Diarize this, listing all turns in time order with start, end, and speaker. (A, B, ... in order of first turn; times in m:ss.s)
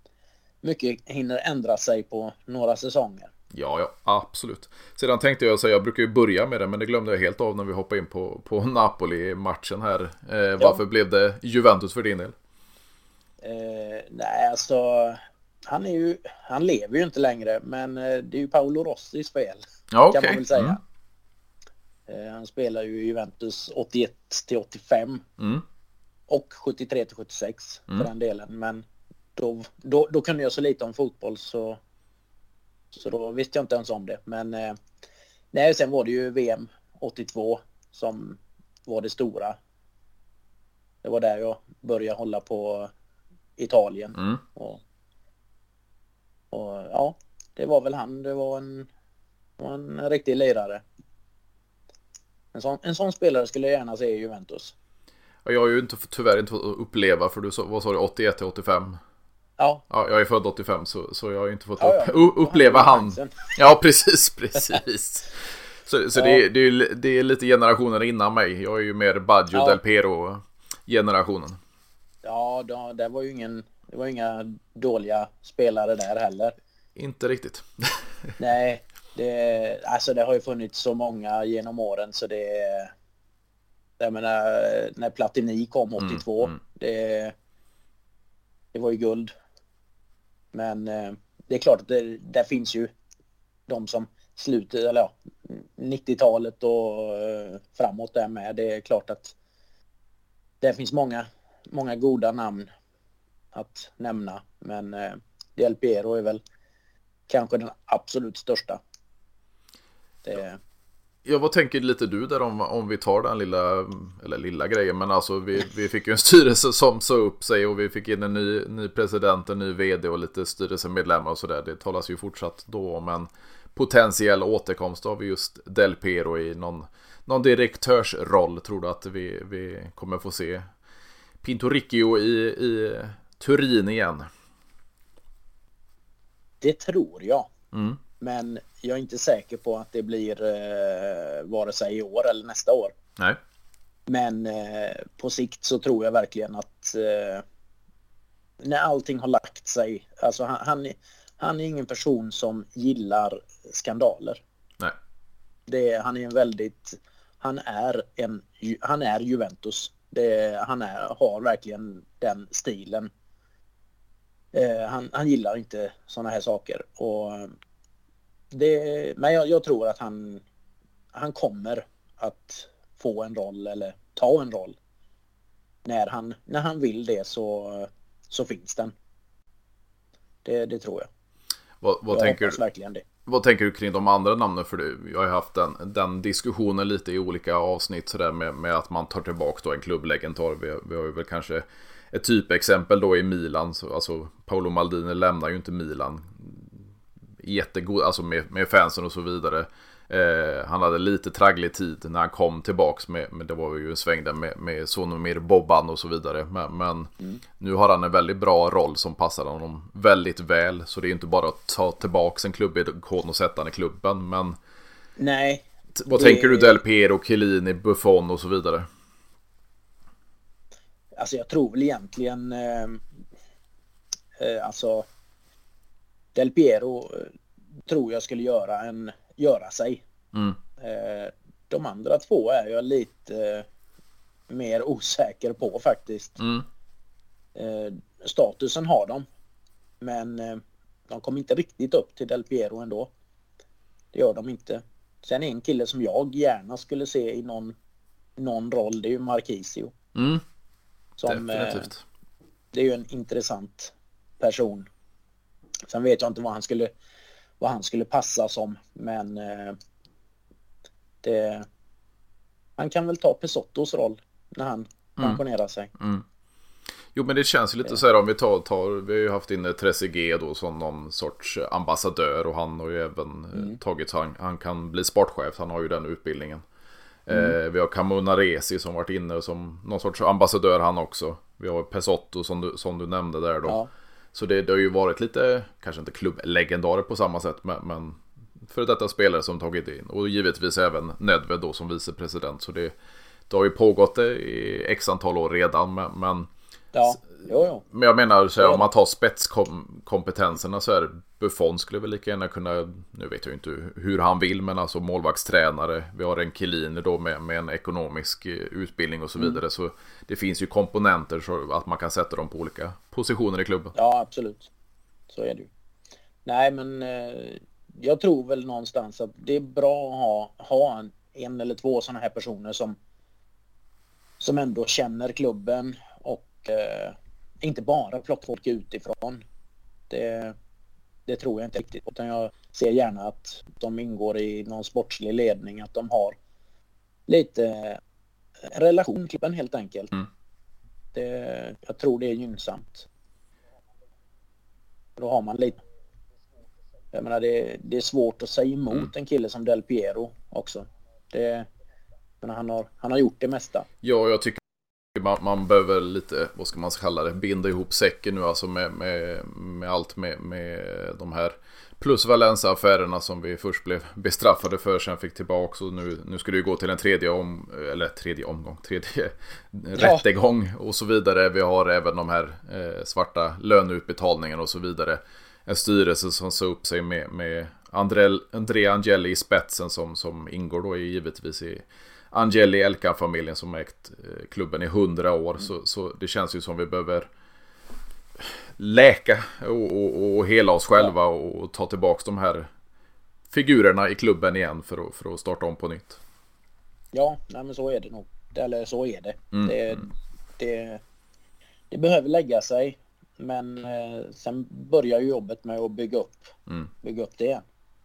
0:00.6-0:03.3 A
0:03.5-0:12.4 B
0:13.4-0:20.8 A
0:19.9-0:20.8 B
0:22.1-0:25.2 A
0:25.4-0:25.6 B
0:26.3-0:28.8 A
0:29.4-0:31.8 A
0:32.9-0:34.8 A
0:35.5-0:39.6 A
0:41.0-0:42.9 A
0:43.6-0:44.8 A
0:44.2-0:44.4 B
0:46.5-0:48.9 A
0:49.6-0:50.8 A
0:52.5-0:54.7 A
0:55.4-0:59.0 B
0:59.9-1:05.3 B
1:01.8-1:03.5 A
1:05.9-1:11.6 B
1:06.2-1:06.4 A
1:09.5-1:09.8 A
1:12.2-1:16.6 A
1:17.0-1:18.0 B
1:18.4-1:22.9 A
1:24.0-1:27.3 A
1:26.0-1:26.6 B
1:28.7-1:29.3 A
1:30.5-1:32.9 A
1:33.7-1:39.4 A
1:40.6-1:42.7 A
1:43.5-1:46.4 A
1:47.3-1:48.8 A
1:50.2-1:50.6 A
1:51.2-2:10.7 B
2:11.4-2:14.3 B
2:16.6-2:17.5 A
2:17.7-2:18.0 B
2:18.2-2:22.9 A
2:24.1-2:27.4 A
2:28.6-2:34.4 A
2:35.7-2:43.1 A
2:44.5-2:47.5 A
2:48.5-2:50.4 A
2:51.1-2:54.8 A
2:55.8-2:58.9 A
3:00.4-3:01.1 A
3:01.8-3:02.6 B
3:02.1-3:03.0 A
3:03.3-3:16.8 B
3:17.4-3:34.6 B
3:35.2-3:36.8 A
3:36.0-3:38.9 B
3:41.2-3:43.0 A
3:44.4-3:45.1 A
3:46.3-3:47.3 A
3:47.9-3:50.0 A
3:50.3-3:50.6 B
3:50.8-3:53.7 A
3:54.5-3:56.4 A
3:56.4-3:56.6 B
3:57.6-3:59.2 A
4:00.0-4:03.1 A
4:04.1-4:07.8 A
4:08.4-4:09.9 A
4:10.2-4:10.4 B
4:11.2-4:11.9 A
4:11.2-4:12.0 B
4:12.7-4:14.9 A
4:15.9-4:16.9 A
4:17.6-4:19.8 A
4:21.2-4:21.7 A
4:22.8-4:25.9 A
4:26.0-4:26.2 B
4:27.1-4:36.6 B
4:37.3-4:43.8 B
4:44.3-4:52.9 B
4:53.5-4:56.5 B
4:56.9-4:57.8 A
4:57.8-5:13.9 B
5:14.0-5:14.7 A
5:15.3-5:15.7 A
5:16.4-5:23.0 A
5:24.4-5:29.4 A
5:30.1-5:30.6 A
5:31.3-5:36.4 A
5:37.3-5:38.0 A
5:38.7-5:40.1 A
5:41.1-5:43.1 A
5:45.2-5:45.8 A
5:47.1-5:51.7 A
5:52.4-5:53.9 A
5:54.0-5:54.6 B
5:55.1-6:27.3 B
6:10.0-6:10.2 A
6:28.4-6:32.7 B
6:33.5-6:36.2 B
6:37.1-6:41.0 A
6:39.5-6:40.0 B
6:41.9-6:47.6 A